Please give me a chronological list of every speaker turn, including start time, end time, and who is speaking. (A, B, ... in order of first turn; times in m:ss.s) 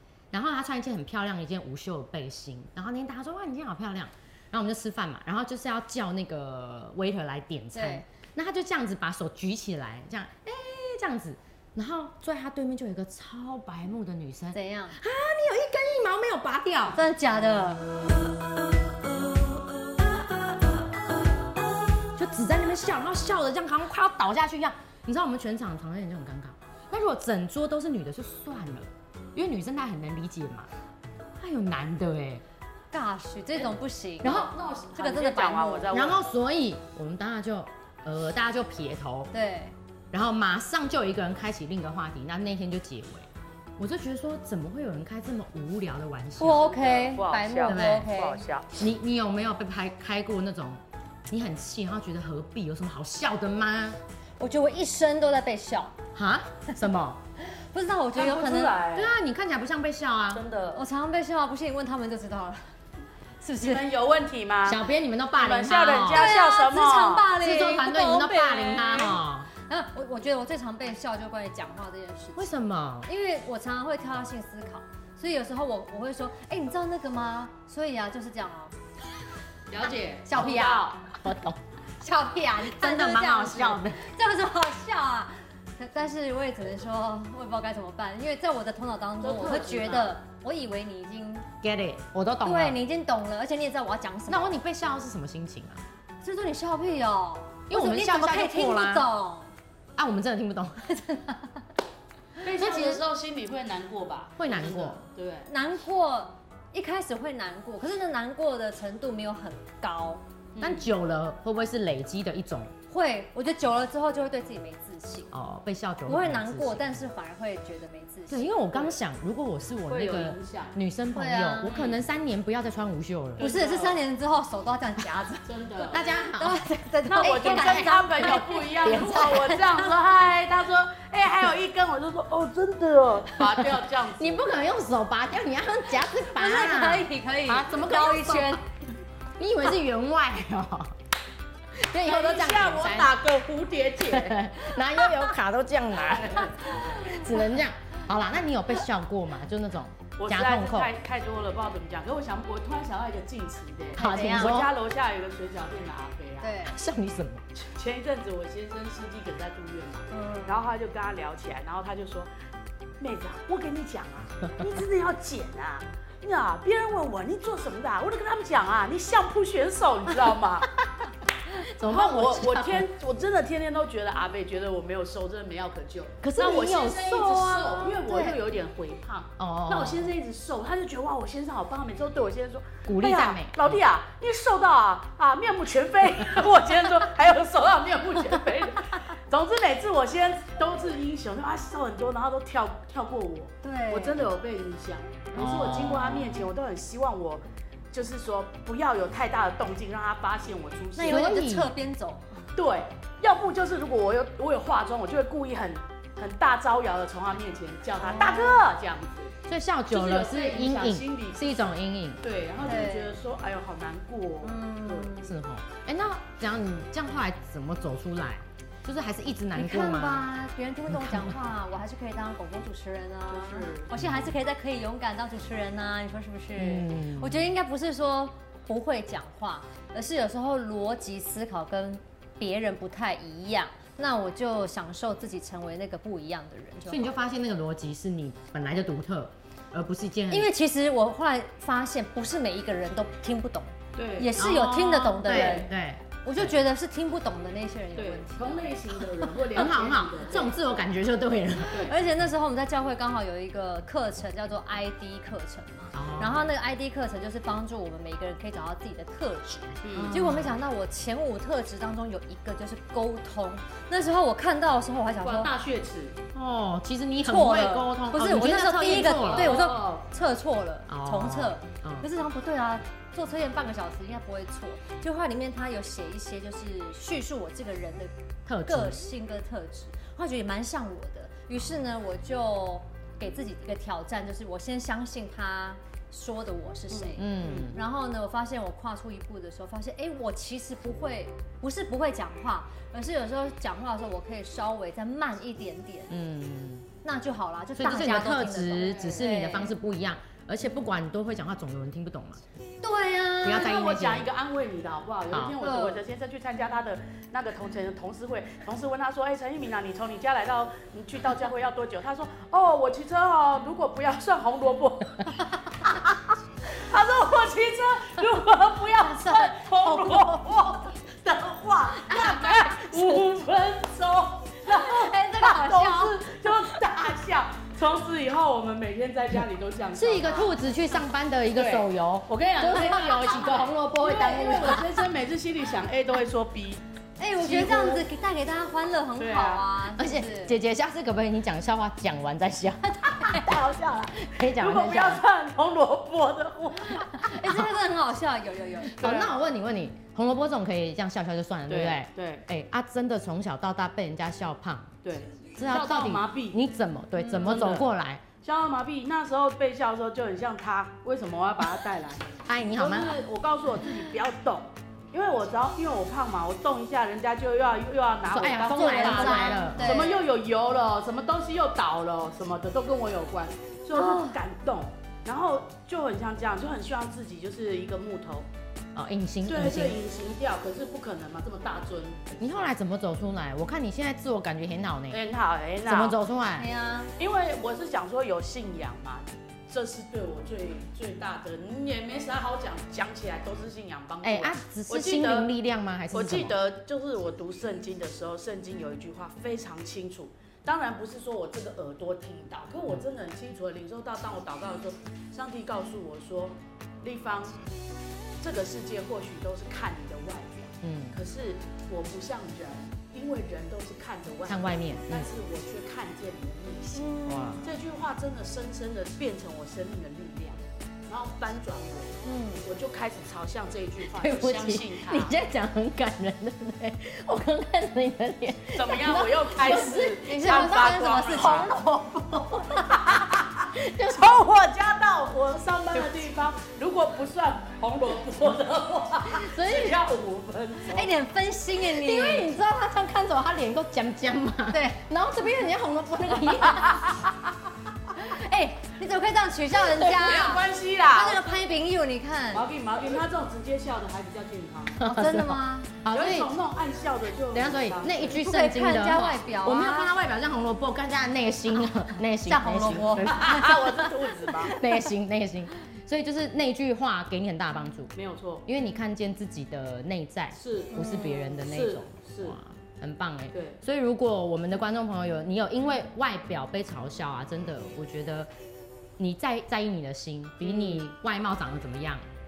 0:00.3-0:17.0 A
0:07.7-0:08.0 B
0:14.5-0:15.0 B
0:16.9-0:17.8 B
0:22.2-0:30.7 A
0:31.4-0:32.4 A
0:32.9-0:35.9 B
0:34.2-0:36.2 C
0:34.2-0:34.5 A
0:35.9-0:39.3 A
0:39.3-0:39.7 B
0:40.1-0:46.7 A
0:46.4-0:48.4 B
0:46.4-0:48.8 C
0:47.6-0:48.1 A
0:48.7-0:54.0 A
0:54.4-0:56.0 B
0:56.1-0:57.2 A
0:57.4-0:58.8 B
0:58.1-0:59.1 C
0:58.9-1:00.4 A
1:00.3-1:00.8 C
1:00.7-1:02.7 B
1:03.4-1:03.8 B
1:03.6-1:07.3 C
1:04.6-1:06.3 A
1:06.1-1:12.5 B
1:07.4-1:09.5 A
1:12.4-1:13.1 A
1:13.0-1:18.7 B
1:19.7-1:21.0 C
1:20.3-1:21.6 A
1:22.0-1:31.5 B
1:22.6-1:24.0 A
1:29.2-1:30.2 C
1:31.6-1:32.8 A
1:32.4-1:34.5 B
1:34.3-1:35.8 A
1:36.2-1:39.5 B
1:37.7-1:39.1 A
1:40.0-1:40.9 A
1:40.9-1:41.6 B
1:42.4-1:43.0 B
1:42.4-1:45.5 C
1:44.4-1:45.0 A
1:45.4-1:50.2 B
1:50.5-1:50.9 C
1:50.6-1:52.7 A
1:52.9-1:55.3 B
1:55.3-1:57.0 A
1:56.0-1:58.5 B
1:58.3-2:03.5 A
1:59.9-2:00.8 C
2:01.1-2:01.8 B
2:01.7-2:02.0 C
2:03.4-2:04.0 C
2:03.4-2:09.6 B
2:05.4-2:06.0 C
2:05.9-2:06.6 A
2:07.1-2:14.4 C
2:07.2-2:09.6 A
2:13.5-2:18.6 A
2:16.3-2:18.6 B
2:19.4-2:21.0 A
2:21.8-2:23.1 A
2:21.9-2:24.4 C
2:24.1-2:30.9 A
2:26.6-2:27.4 B
2:30.2-2:36.6 C
2:34.0-2:34.6 B
2:34.0-2:34.7 A
2:36.4-2:36.8 B
2:36.6-2:37.4 A
2:37.5-2:42.3 C
2:40.1-2:40.6 B
2:43.0-2:50.7 C
2:51.7-2:52.9 A
2:51.8-3:21.2 C
2:56.2-2:57.6 A
2:57.4-2:58.4 B
2:59.4-3:00.1 A
3:02.9-3:03.7 A
3:13.6-3:14.3 B
3:15.3-3:16.4 A
3:21.0-3:22.4 B
3:21.1-3:21.7 A
3:22.6-3:29.3 C
3:28.0-3:28.6 B
3:29.4-3:32.2 A
3:29.9-3:31.5 C
3:32.2-3:35.1 C
3:32.6-3:33.2 B
3:34.4-3:35.4 B
3:35.2-3:40.3 A
3:39.5-3:57.2 B
3:40.9-3:41.4 A
3:43.3-3:43.9 C
3:44.0-3:44.3 A
3:46.6-3:47.5 A
3:56.9-4:00.5 A
4:00.3-4:05.7 B
4:03.9-4:04.3 C
4:04.4-4:06.6 A
4:05.2-4:05.7 C
4:06.2-4:08.8 B
4:08.0-4:10.6 C
4:09.5-4:12.0 A
4:11.7-4:25.5 B
4:15.9-4:16.5 A
4:19.8-4:20.1 C
4:19.9-4:20.6 A
4:25.2-4:26.2 C
4:26.3-4:29.6 A
4:27.2-4:38.1 B
4:29.2-4:30.0 C
4:30.9-4:32.1 A
4:38.4-4:39.0 A
4:38.6-4:56.1 B
4:46.9-4:47.7 C
4:47.2-4:47.8 A
4:56.1-4:56.9 A
4:57.0-4:59.8 B
4:57.8-5:02.4 A
5:02.8-5:03.7 B
5:03.4-5:04.2 A
5:03.5-5:15.3 C
5:05.6-5:06.0 B
5:16.7-5:30.5 C
5:19.0-5:20.3 B
5:22.1-5:22.7 B
5:24.7-5:26.2 B
5:29.9-5:34.8 A
5:30.2-5:30.6 B
5:31.5-5:36.8 C
5:32.8-5:33.6 B
5:34.5-5:34.8 B
5:37.2-5:40.5 B
5:37.4-5:38.0 C
5:39.1-5:39.7 C
5:40.0-5:43.5 A
5:43.0-5:43.7 B
5:43.3-5:47.2 C
5:44.1-5:45.2 A
5:46.8-5:49.1 B
5:47.4-5:47.7 A
5:48.9-5:54.9 A
5:49.0-5:49.3 C
5:51.7-5:52.4 C
5:55.0-5:56.6 C
5:55.5-5:58.2 A
5:57.2-5:57.4 B
5:57.4-5:57.9 C
5:58.4-6:18.5 C
6:02.4-6:03.2 A
6:08.3-6:10.0 A
6:08.4-6:10.2 B
6:13.9-6:14.4 B
6:18.9-6:20.0 A
6:19.4-6:22.8 C
6:22.4-6:25.2 A
6:25.1-6:26.2 C
6:25.8-6:26.7 A
6:26.6-6:27.1 B
6:27.2-6:35.5 C
6:34.2-6:36.6 A
6:36.1-6:47.6 C
6:48.4-7:05.4 C
6:50.8-6:51.2 A
6:54.5-6:55.3 A
6:56.9-6:57.5 B
6:57.2-6:57.7 A
7:02.2-7:02.6 B
7:04.1-7:13.0 A
7:08.7-7:11.8 C
7:09.9-7:12.1 B
7:12.8-7:21.1 C
7:13.7-7:14.4 A
7:19.3-7:20.0 A
7:20.9-7:22.5 B
7:21.8-7:27.1 A
7:24.7-7:25.0 B
7:28.2-7:32.6 B
7:29.7-7:31.5 C
7:32.5-7:35.0 C
7:35.0-7:36.5 A
7:35.0-7:36.0 B
7:36.1-7:38.4 C
7:37.5-7:48.1 A
7:38.2-7:40.1 B
7:42.4-7:43.7 B
7:43.2-7:44.8 C
7:48.1-7:48.6 C
7:48.6-7:58.5 A
7:50.5-7:52.6 C
7:50.9-7:51.5 B
7:53.5-7:53.8 C
7:59.2-8:02.2 A
8:00.6-8:01.0 C